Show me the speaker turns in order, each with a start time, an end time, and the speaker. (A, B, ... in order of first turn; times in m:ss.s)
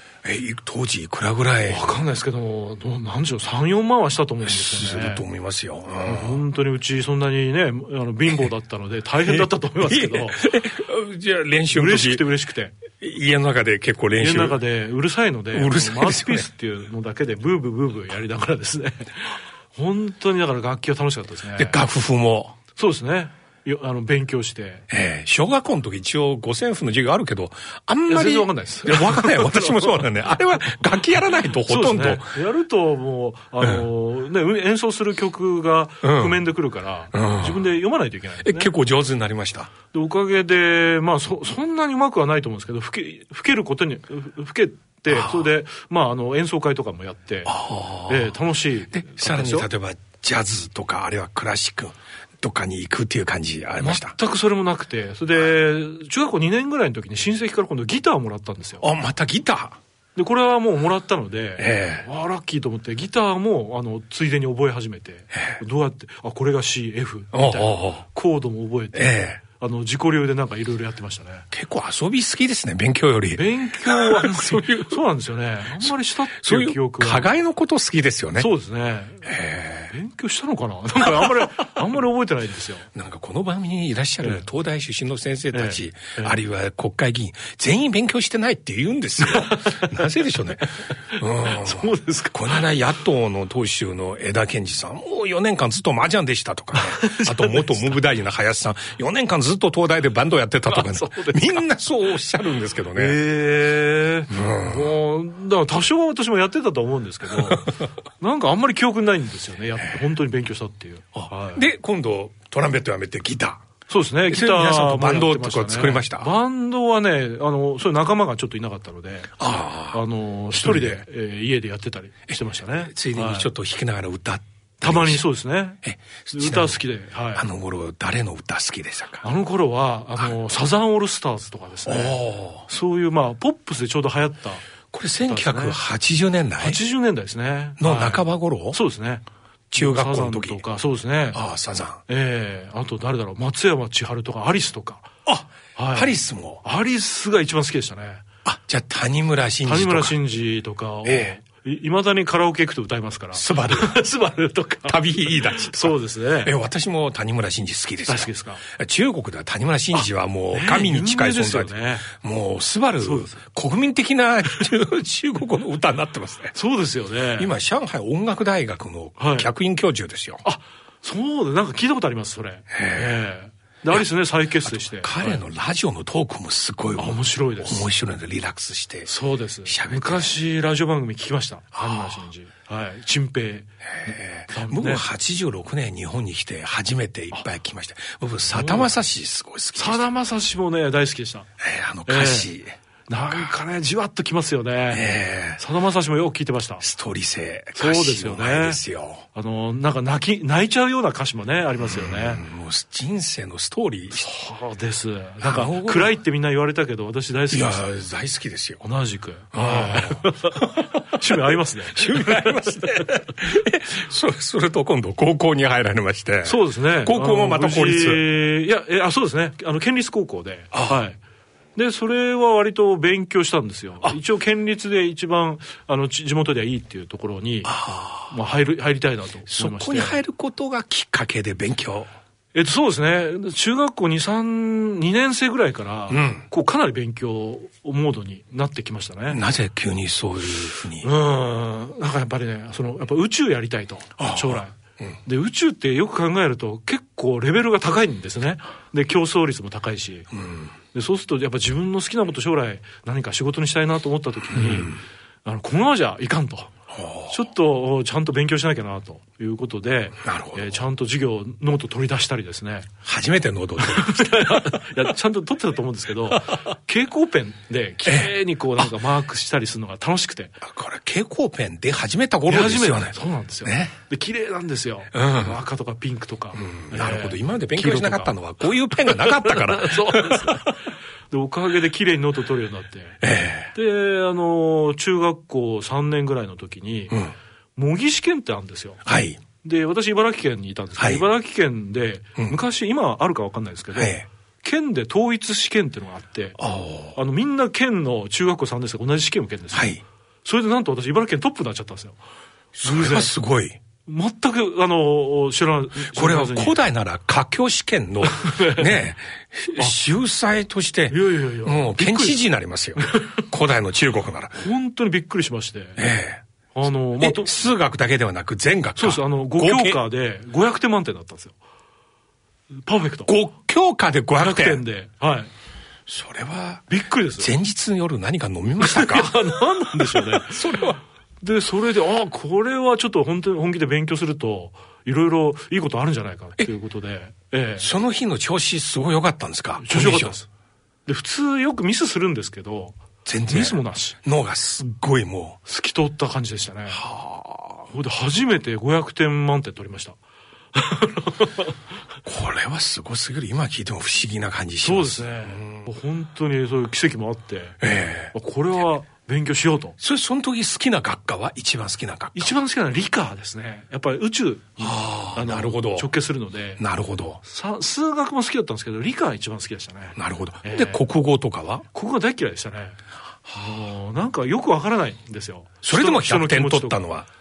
0:00.2-0:02.0 A
0:01.6-0:05.2 B
0:04.4-0:06.4 A
0:06.0-0:10.4 B
0:09.2-0:12.2 A
0:11.7-0:12.8 B
0:13.0-0:14.6 A
0:14.2-0:21.8 B
0:15.5-0:16.5 A
0:21.6-0:22.6 A
0:22.8-0:24.8 B
0:24.9-0:32.3 A
0:28.1-0:30.0 B
0:31.7-0:38.7 B
0:36.0-0:36.4 A
0:37.1-0:37.6 A
0:38.4-0:39.7 A
0:39.9-0:49.7 B
0:45.1-0:45.5 A
0:47.5-0:48.3 A
0:49.0-0:54.2 A
0:53.8-0:58.8 B
0:58.8-0:59.8 A
1:00.2-1:11.5 B
1:01.6-1:02.1 A
1:07.3-1:08.0 A
1:08.9-1:09.4 A
1:11.5-1:15.0 A
1:13.4-1:17.3 B
1:15.8-1:18.5 A
1:18.4-1:19.3 B
1:19.2-1:19.9 A
1:19.9-1:22.9 B
1:21.1-1:21.4 A
1:22.9-1:43.2 A
1:25.5-1:26.4 B
1:29.2-1:30.5 B
1:31.1-1:32.7 B
1:36.8-1:38.0 B
1:40.7-1:41.6 B
1:43.0-1:51.6 B
1:44.3-1:44.9 A
1:51.2-1:53.6 A
1:53.9-2:03.5 B
1:54.3-1:56.3 A
1:59.4-2:00.0 A
2:00.5-2:01.0 A
2:02.3-2:05.2 A
2:04.8-2:05.8 B
2:05.8-2:06.8 A
2:06.3-2:07.5 B
2:07.4-2:09.2 A
2:09.2-2:14.7 B
2:11.9-2:12.7 A
2:14.9-2:16.8 A
2:15.3-2:15.8 B
2:16.6-2:21.4 B
2:17.8-2:18.8 A
2:19.7-2:20.6 A
2:21.3-2:22.0 A
2:22.1-2:25.1 B
2:25.3-2:26.6 A
2:25.8-2:28.2 B
2:28.4-2:30.2 A
2:29.6-2:36.5 B
2:31.0-2:31.4 A
2:33.3-2:34.0 A
2:34.8-2:46.6 A
2:38.1-2:38.6 B
2:40.5-2:42.1 B
2:43.0-2:43.4 B
2:46.6-2:47.5 B
2:47.4-2:50.4 A
2:49.2-2:49.5 B
2:50.4-2:55.4 B
2:52.7-2:53.1 A
2:54.6-2:59.1 A
2:57.0-2:57.9 B
2:59.1-3:05.1 B
2:59.6-3:00.3 A
3:01.8-3:02.2 A
3:04.0-3:10.0 A
3:08.5-3:08.9 B
3:09.8-3:11.5 B
3:11.6-3:12.8 A
3:12.1-3:12.5 B
3:13.1-3:16.8 B
3:14.9-3:15.6 A
3:16.8-3:19.2 A
3:17.8-3:18.8 B
3:19.4-3:22.4 B
3:21.8-3:24.3 A
3:24.1-3:27.9 B
3:25.4-3:26.1 A
3:27.5-3:28.8 A
3:28.8-3:33.1 B
3:29.5-3:38.2 A
3:36.4-3:41.2 B
3:40.7-3:41.0 A
3:41.8-3:50.2 B
3:47.6-3:48.3 A
3:49.5-3:52.1 A
3:52.5-3:59.4 B
3:56.1-3:56.4 A
3:59.3-4:01.1 A
4:01.0-4:04.8 B
4:04.2-4:05.2 A
4:05.3-4:10.3 B
4:10.3-4:10.7 A
4:10.9-4:16.7 B
4:14.5-4:15.0 A
4:16.9-4:17.4 A
4:17.3-4:22.9 B
4:20.2-4:20.8 A
4:23.0-4:24.6 A
4:23.8-4:30.6 B
4:28.0-4:28.9 A
4:30.6-4:34.0 A
4:32.5-4:38.4 B
4:35.1-4:35.6 A
4:36.6-4:40.7 A
4:38.9-4:43.2 B
4:43.2-4:43.7 A
4:43.7-4:47.2 B
4:47.8-4:49.0 B
4:49.1-4:49.4 A
4:49.6-4:56.6 B
4:51.0-4:51.3 A
4:54.0-4:54.3 A
4:56.6-4:57.2 A
4:57.2-5:02.2 B
4:59.7-5:00.0 A
5:02.8-5:03.8 A
5:02.8-5:03.3 B
5:04.1-5:06.8 B
5:06.1-5:14.6 A
5:08.2-5:09.0 B
5:11.1-5:12.4 B
5:13.0-5:13.3 B
5:14.6-5:16.0 B
5:16.0-5:16.4 A
5:16.8-5:17.7 B
5:17.2-5:20.0 A
5:19.0-5:21.5 B
5:22.9-5:23.3 B
5:23.3-5:24.8 A
5:24.4-5:25.5 B
5:26.1-5:26.8 A
5:26.9-5:27.5 B
5:27.4-5:31.0 A
5:28.8-5:37.9 B
5:37.8-5:40.4 A
5:39.8-5:40.5 B
5:41.1-5:44.2 B
5:43.3-5:45.6 A
5:45.7-5:47.1 B
5:46.9-5:47.7 A
5:47.9-5:50.2 B
5:50.7-5:51.7 B
5:52.3-5:55.9 A
5:54.8-5:57.8 B
5:57.8-5:58.3 A
5:58.3-6:00.0 B
6:00.0-6:02.6 A
6:02.4-6:06.8 B
6:04.8-6:06.1 A
6:06.8-6:07.4 A
6:07.4-6:11.0 B
6:10.2-6:11.9 A
6:11.9-6:13.0 B
6:13.6-6:17.0 B
6:15.8-6:17.3 A